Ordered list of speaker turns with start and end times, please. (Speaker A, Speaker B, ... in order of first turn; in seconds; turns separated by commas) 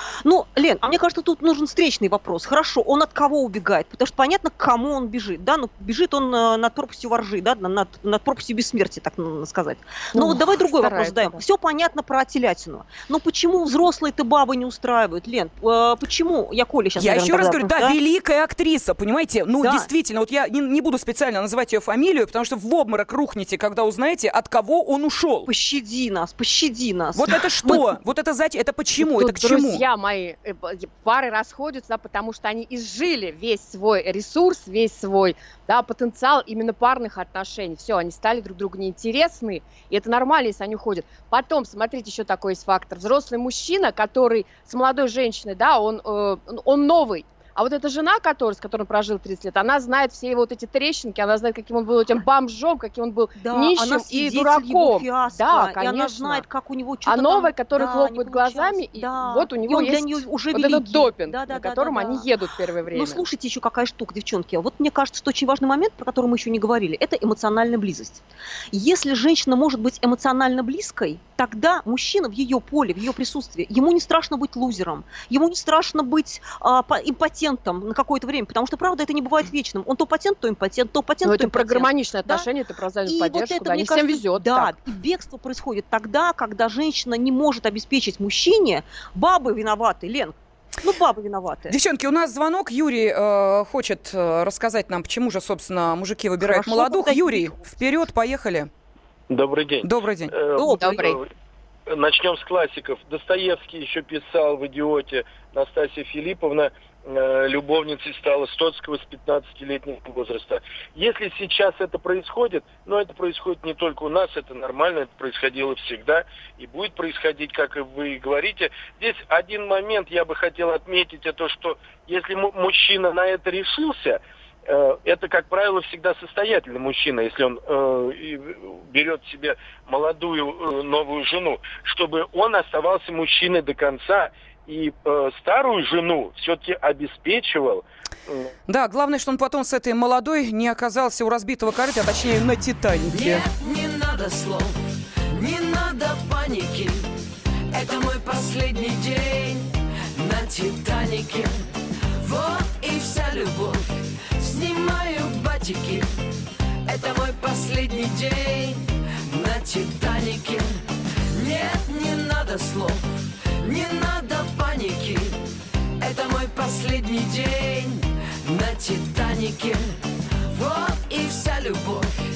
Speaker A: 0.2-18.0, Speaker B: 10.1-11.4, Speaker C: 17.0-25.5, Speaker A: 19.6-19.9, Speaker A: 25.4-27.8, Speaker C: 27.1-29.8, Speaker B: 29.0-56.4, Speaker A: 53.4-62.3, Speaker B: 57.1-63.2, Speaker A: 62.9-82.5, Speaker B: 81.2-84.8, Speaker A: 83.1-91.8, Speaker C: 91.7-98.7, Speaker A: 96.4-97.6, Speaker D: 99.3-101.3, Speaker C: 99.8-100.3, Speaker A: 100.6-101.2, Speaker B: 100.7-101.2, Speaker D: 101.9-138.5, Speaker C: 138.7-143.4, Speaker E: 143.1-144.8, Speaker E: 145.3-147.1, Speaker E: 147.7-151.6, Speaker E: 152.2-156.1, Speaker E: 156.8-165.4, Speaker E: 166.0-172.1